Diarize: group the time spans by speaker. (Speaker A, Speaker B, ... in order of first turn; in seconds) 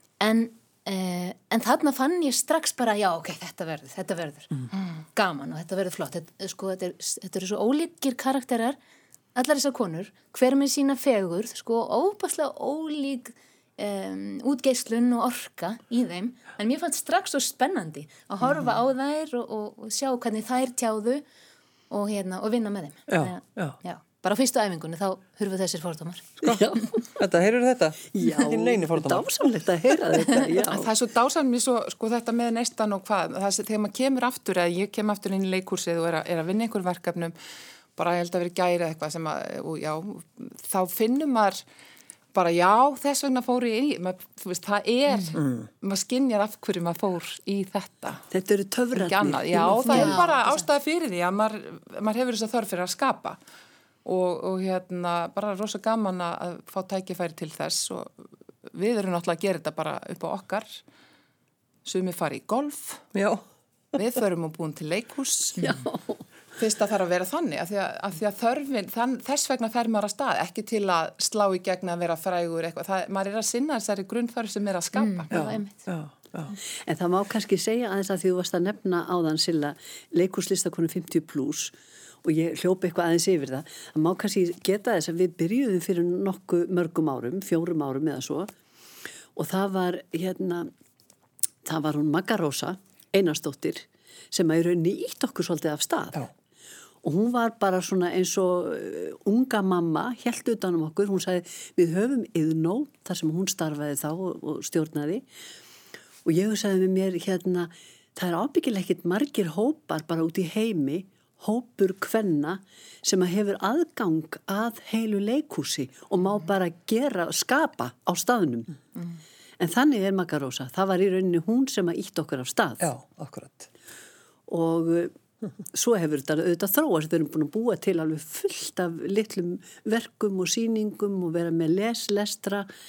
Speaker A: 0.2-4.5, 5.2-8.8, 9.3-21.2, 21.9-26.3, 49.9-50.7, 75.0-75.8
Speaker B: 23.1-23.8, 26.4-29.3, 45.3-45.7, 63.1-63.4, 75.3-76.5, 122.8-123.7
Speaker C: 26.4-27.2, 28.1-30.9, 48.3-50.2, 65.6-66.2, 76.8-88.5, 89.3-90.7, 91.6-96.3, 97.0-105.2, 106.2-118.7, 119.6-122.8, 124.5-125.1, 125.7-132.7
Speaker D: 30.7-37.3, 38.0-41.6, 42.3-48.2, 48.9-53.4, 54.0-60.8, 61.8-63.0, 63.9-65.8, 66.6-75.3